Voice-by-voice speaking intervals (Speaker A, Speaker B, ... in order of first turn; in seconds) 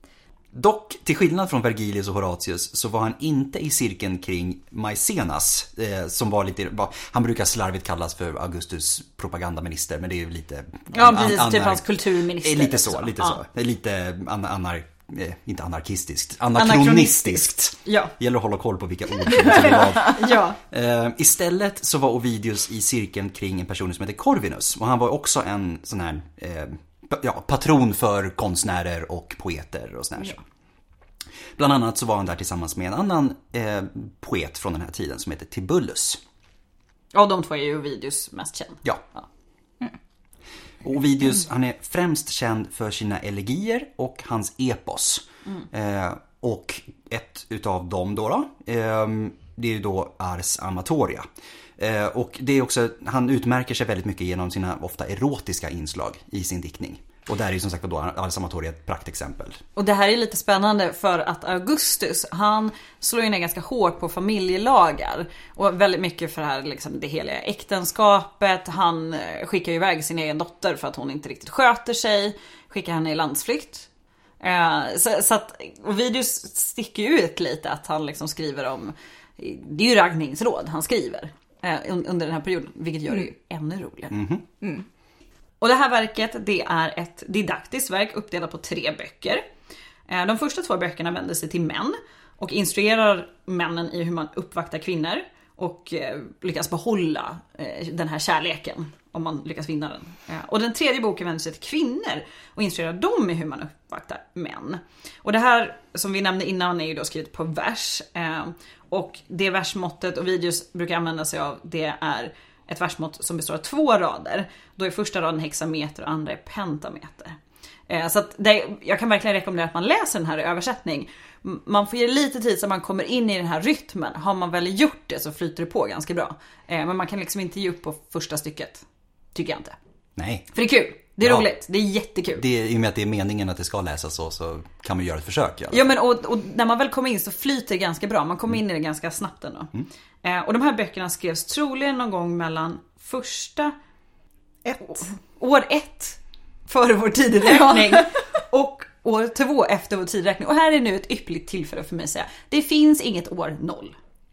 Speaker A: 0.5-11.8, 12.4-30.4, 31.6-36.2, 40.8-51.2, 51.8-59.6, 84.1-84.4, 130.2-130.5, 131.2-131.5, 132.3-135.9
Speaker B: 10.9-13.4, 16.5-18.1, 19.5-20.6, 37.1-39.2, 59.8-73.9, 74.4-84.1, 85.6-89.5, 90.1-117.4, 117.9-129.8, 130.5-132.4, 135.7-143.7, 144.8-153.9